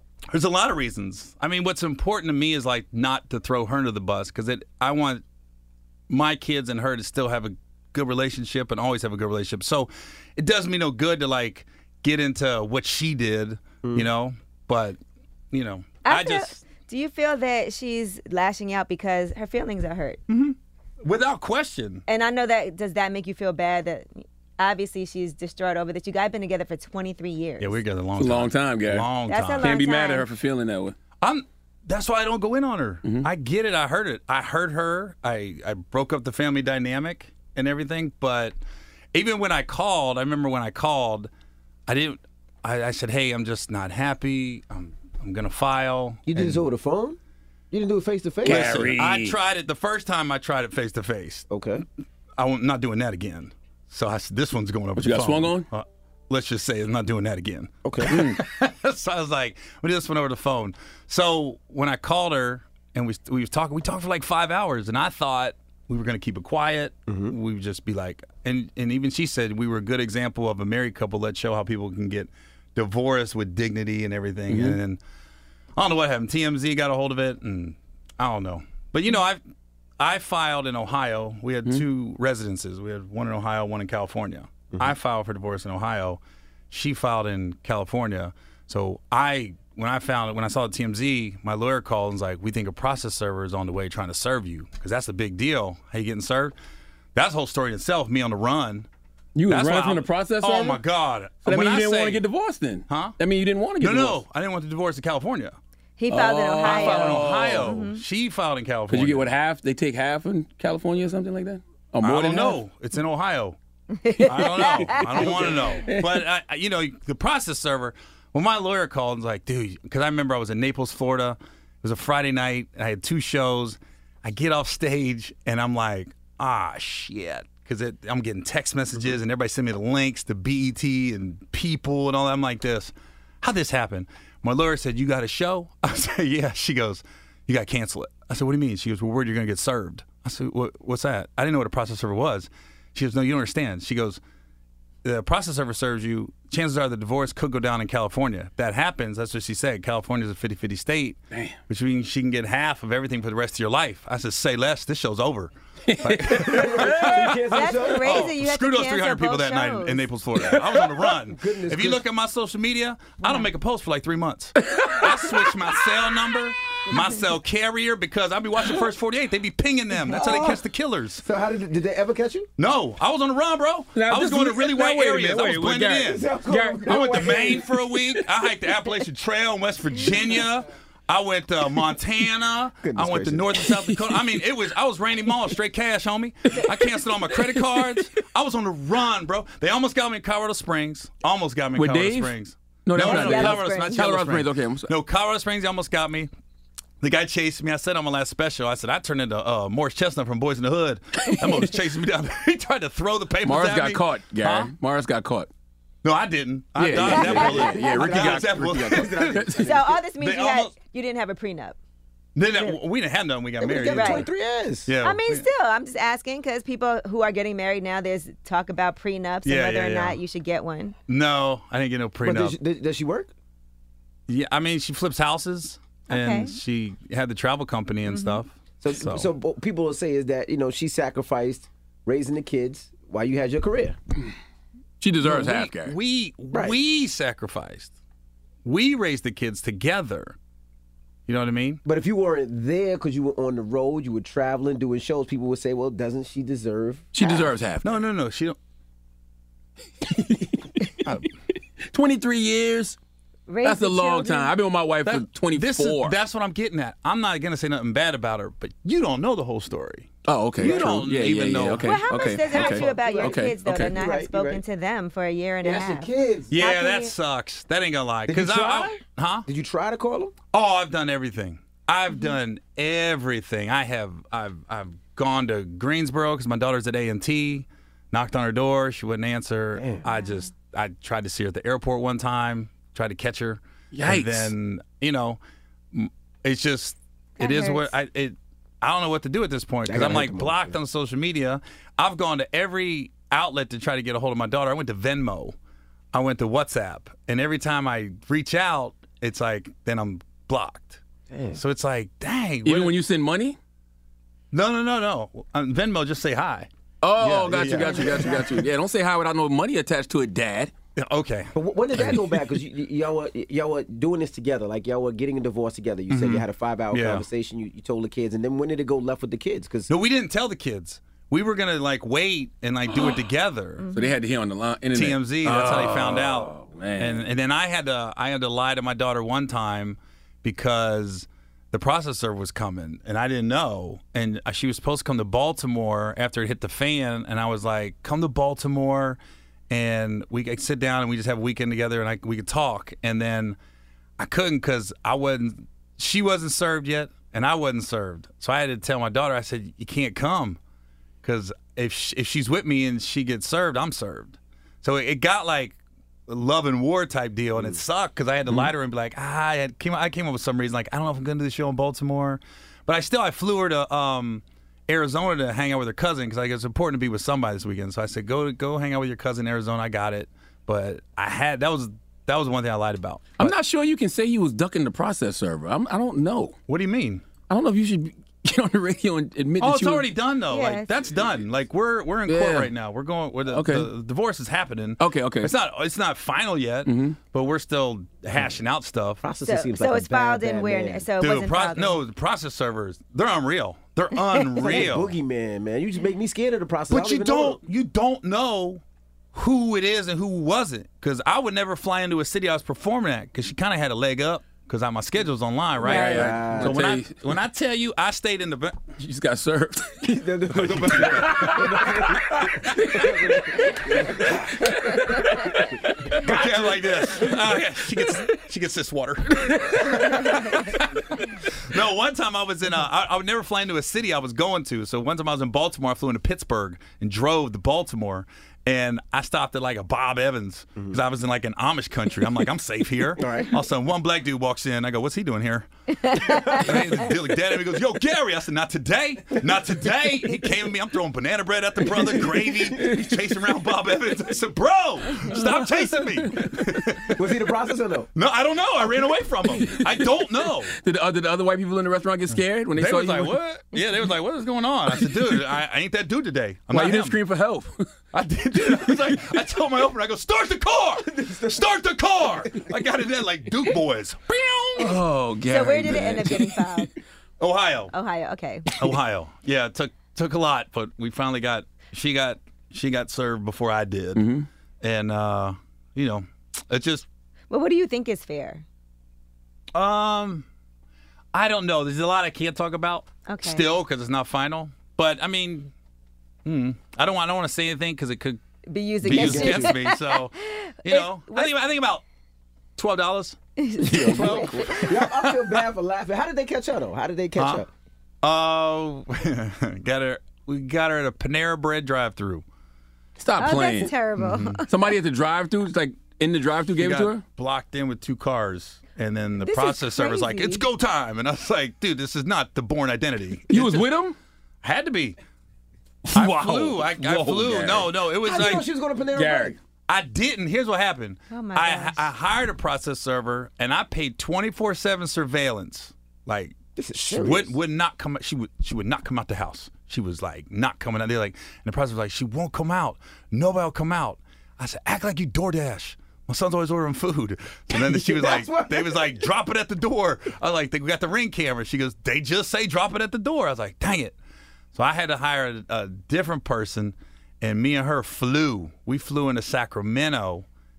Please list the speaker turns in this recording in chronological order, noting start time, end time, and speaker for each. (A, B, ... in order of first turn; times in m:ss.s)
0:00.3-0:05.2 A
0:06.1-0:15.0 A
0:13.8-0:14.1 B
0:15.5-0:16.6 A
0:16.0-0:20.2 C
0:20.3-0:22.0 A
0:22.1-0:27.8 C
0:27.6-0:29.7 A
0:28.2-0:29.1 D
0:29.3-0:30.3 C
0:29.6-0:31.0 D
0:31.2-0:38.5 A
0:39.1-0:41.3 A
0:41.9-0:46.6 A
0:46.3-0:47.2 B
0:47.7-0:48.9 B
0:48.4-0:49.4 D
0:48.4-0:51.5 A
0:51.5-0:51.8 B
0:52.4-1:15.0 A
0:55.0-0:55.7 D
0:57.8-0:58.2 B
0:58.1-0:58.4 D
1:07.1-1:07.4 B
1:14.5-1:14.8 D
1:15.8-1:19.4 A
1:20.0-1:36.6 A
1:37.2-1:38.9 A
1:39.4-1:40.8 D
1:39.5-1:42.2 A
1:41.5-1:44.2 D
1:42.9-1:43.2 A
1:43.8-1:45.6 A
1:46.0-1:48.0 C
1:46.1-1:47.7 D
1:46.6-1:49.3 A
1:48.9-1:52.6 D
1:52.0-1:53.6 A
1:54.0-1:55.0 C
1:54.2-2:24.2 A
1:54.2-1:56.2 D
2:25.0-2:51.3 A
2:35.9-2:37.3 D
2:36.4-2:38.3 B
2:37.5-2:40.0 C
2:40.4-2:40.8 D
2:41.3-2:42.0 B
2:44.8-2:45.1 D
2:50.0-2:50.6 B
2:51.2-2:52.5 B
2:52.6-2:56.3 A
2:54.0-2:58.2 D
2:56.0-2:57.7 B
2:56.9-3:16.3 A
3:02.8-3:03.6 B
3:06.5-3:08.0 D
3:11.8-3:12.3 D
3:12.9-3:14.9 D
3:13.0-3:14.0 C
3:17.0-3:24.7 A
3:21.3-3:21.6 D
3:23.4-3:25.5 D
3:26.0-3:29.5 A
3:26.8-3:29.7 D
3:27.0-3:30.0 B
3:27.2-3:27.7 C
3:29.6-3:31.8 C
3:30.2-3:30.7 A
3:32.4-3:34.3 A
3:33.6-3:34.9 B
3:33.8-3:34.3 C
3:34.9-3:35.4 A
3:35.0-3:41.0 C
3:39.4-3:40.2 A
3:41.1-3:42.6 A
3:42.2-3:43.3 B
3:44.3-3:49.3 A
3:46.1-3:46.5 C
3:48.1-3:48.4 C
3:48.8-3:54.0 B
3:55.0-3:56.0 D
3:55.2-3:57.9 A
3:56.5-3:56.8 B
3:58.6-4:00.4 A
4:01.3-4:01.8 A
4:01.8-4:07.5 B
4:07.1-4:07.9 D
4:07.8-4:08.6 A
4:10.0-4:10.9 D
4:11.9-4:13.0 D
4:13.5-4:14.5 C
4:13.6-4:16.2 D
4:15.0-4:22.1 A
4:20.3-4:23.9 D
4:20.6-4:21.0 B
4:21.8-4:27.1 C
4:22.4-4:24.6 B
4:25.6-4:26.5 B
4:26.5-4:29.5 A
4:28.3-4:30.3 B
4:30.5-4:45.4 A
4:39.8-4:40.0 B
4:43.9-4:44.5 D
4:45.9-4:55.6 A
4:47.4-4:47.9 C
4:49.9-4:50.8 B
4:56.1-5:01.0 A
5:01.3-5:01.6 B
5:01.6-5:03.0 A
5:02.6-5:03.6 D
5:04.5-5:08.5 A
5:07.0-5:10.7 D
5:07.6-5:08.4 B
5:11.0-5:12.2 A
5:11.6-5:19.9 B
5:16.1-5:17.3 A
5:19.9-5:23.8 A
5:23.8-5:24.1 C
5:23.9-5:27.2 D
5:24.9-5:39.2 A
5:39.7-5:43.6 A
5:44.2-5:50.6 A
5:51.2-6:13.6 A
5:57.6-5:57.8 B
6:13.4-6:16.6 D
6:16.7-6:17.2 A
6:17.5-6:20.1 D
6:19.6-6:29.2 A
6:20.5-6:21.0 C
6:22.3-6:22.7 D
6:23.5-6:23.9 D
6:25.0-6:25.5 D
6:26.9-6:27.2 D
6:29.2-6:31.1 B
6:29.5-6:32.0 C
6:31.2-6:35.1 A
6:34.6-6:37.6 B
6:36.9-6:38.8 A
6:39.3-6:48.8 A
6:45.8-6:47.2 D
6:45.8-6:46.8 B
6:49.0-6:50.3 D
6:50.1-6:54.9 B
6:50.5-6:51.8 A
6:51.0-6:52.0 D
6:52.7-6:53.1 D
6:56.1-7:01.2 A
6:56.2-6:56.8 B
7:01.7-7:27.2 A
7:13.2-7:13.5 B
7:16.0-7:16.6 C
7:22.0-7:23.0 B
7:25.3-7:26.5 D
7:27.1-7:28.1 B
7:28.2-7:30.7 A
7:29.7-7:33.4 D
7:32.8-7:37.2 A
7:36.7-7:37.9 D
7:38.1-7:45.0 A
7:41.0-7:41.6 B
7:44.8-7:46.9 D
7:45.5-7:46.9 C
7:47.4-7:47.9 A
7:47.9-7:48.7 C
7:48.8-7:54.3 A
7:54.2-7:54.5 D
7:54.8-7:57.1 A
7:57.5-7:58.6 C
7:59.7-8:00.4 A
8:01.3-8:05.7 A
8:03.3-8:03.7 C
8:06.4-8:08.4 A
8:08.7-8:11.5 C
8:09.0-8:12.0 A
8:09.0-8:09.8 B
8:12.8-8:15.6 A
8:13.6-8:14.5 C
8:13.8-8:17.7 B
8:13.9-8:14.8 D
8:17.4-8:17.6 A
8:18.2-8:22.4 A
8:23.2-8:27.2 D
8:23.4-8:24.7 C
8:26.8-8:33.9 A
8:29.4-8:30.7 C
8:33.5-8:34.2 D
8:34.6-8:35.2 A
8:36.1-8:37.9 D
8:36.1-8:38.6 A
8:38.2-8:39.6 B
8:39.2-8:39.6 D
8:39.9-8:46.6 A
8:41.3-8:42.1 C
8:46.8-8:47.6 B
8:47.1-9:04.2 A
8:57.7-8:59.2 B
9:04.7-9:10.4 A